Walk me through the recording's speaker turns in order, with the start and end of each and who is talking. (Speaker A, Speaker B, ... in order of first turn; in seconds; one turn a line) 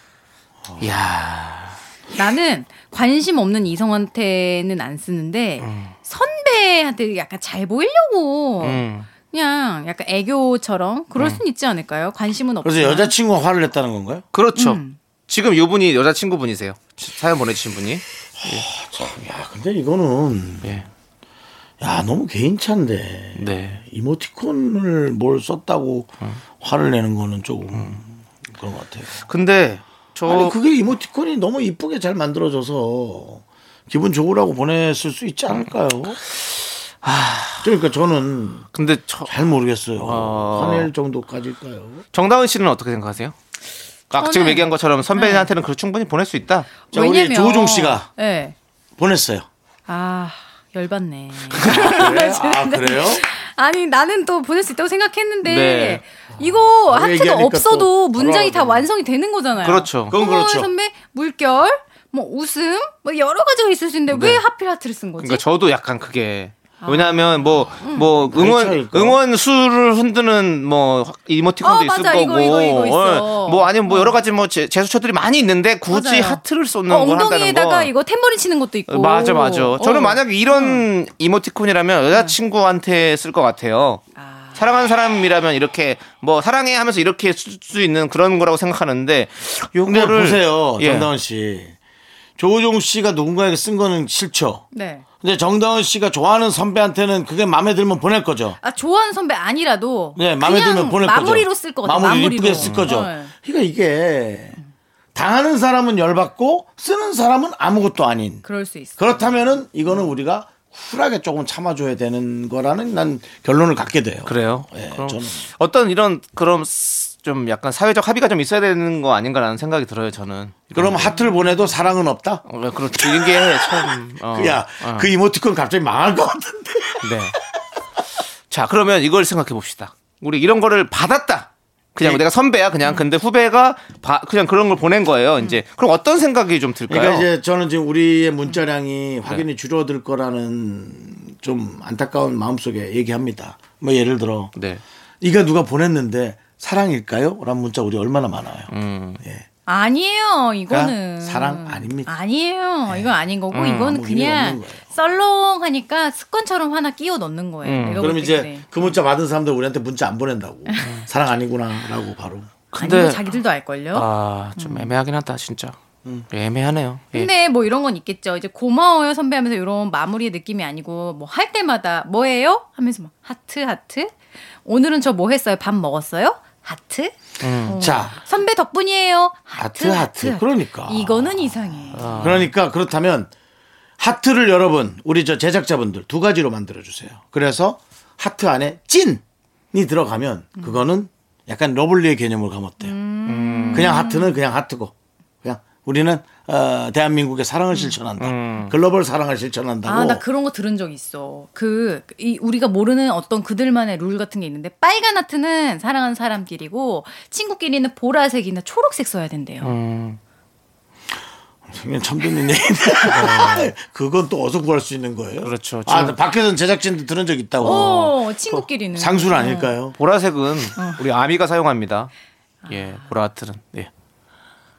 Speaker A: 0.8-1.8
Speaker B: 2.1-13.1
Speaker A: 5.6-5.9
Speaker A: 8.6-9.1
Speaker A: 11.2-11.4
Speaker C: 12.6-14.2
Speaker A: 14.3-18.6
Speaker B: 14.6-15.0
Speaker C: 18.4-20.7
Speaker A: 20.6-20.9
Speaker C: 21.8-29.2
Speaker A: 23.4-23.8
Speaker A: 29.2-30.6
Speaker C: 30.2-36.2
Speaker A: 37.0-37.7
Speaker C: 37.6-38.7
Speaker A: 38.7-39.3
Speaker C: 39.3-42.0
Speaker A: 40.0-40.9
Speaker A: 42.1-43.4
Speaker A: 44.1-46.7
Speaker B: 44.2-45.5
Speaker B: 46.9-48.5
Speaker C: 46.9-48.1
Speaker C: 49.0-49.5
Speaker B: 49.9-65.4
Speaker A: 51.5-52.0
Speaker C: 51.6-53.2
Speaker A: 55.4-56.0
Speaker C: 56.9-58.9
Speaker A: 59.6-60.2
Speaker C: 60.1-60.7
Speaker A: 64.1-64.4
Speaker A: 65.2-77.9
Speaker B: 66.8-68.1
Speaker C: 68.2-69.2
Speaker B: 71.6-74.2
Speaker B: 75.9-80.8
Speaker A: 78.9-84.0
Speaker B: 84.2-84.6
Speaker A: 84.5-91.1
Speaker C: 89.9-91.7
Speaker C: 92.4-94.6
Speaker B: 94.7-95.0
Speaker C: 95.2-98.6
Speaker B: 98.6-103.3
Speaker C: 100.2-104.6
Speaker A: 102.6-102.9
Speaker C: 105.1-108.4
Speaker B: 108.4-109.4
Speaker C: 109.0-115.5
Speaker A: 114.2-121.1
Speaker C: 120.7-122.4
Speaker B: 121.0-121.7
Speaker A: 122.5-125.1
Speaker C: 123.0-127.1
Speaker A: 127.0-127.3
Speaker A: 128.5-137.3
Speaker C: 136.9-144.5
Speaker A: 144.6-144.8
Speaker C: 145.2-148.7
Speaker A: 148.7-149.2
Speaker B: 149.7-158.7
Speaker C: 150.7-152.1
Speaker C: 152.9-153.1
Speaker A: 153.5-154.0
Speaker C: 153.7-154.8
Speaker A: 157.6-158.2
Speaker C: 158.0-162.5
Speaker B: 160.7-160.9
Speaker A: 162.7-163.3
Speaker B: 162.8-164.1
Speaker A: 163.9-165.8
Speaker B: 164.6-164.9
Speaker A: 166.3-167.3
Speaker B: 167.1-174.1
Speaker B: 174.6-182.3
Speaker A: 177.4-177.9
Speaker C: 177.7-178.2
Speaker C: 179.6-183.3
Speaker A: 181.9-182.5
Speaker C: 184.0-192.9
Speaker B: 192.8-194.4
Speaker A: 193.2-194.0
Speaker C: 193.7-194.9
Speaker C: 195.4-200.2
Speaker A: 198.2-198.7
Speaker B: 199.8-209.7
Speaker A: 209.6-210.2
Speaker C: 211.7-219.9
Speaker A: 213.1-213.7
Speaker A: 215.4-216.2
Speaker B: 217.6-219.7
Speaker A: 217.6-217.9
Speaker A: 220.0-222.1
Speaker B: 220.8-221.0
Speaker B: 222.7-222.9
Speaker A: 222.7-223.9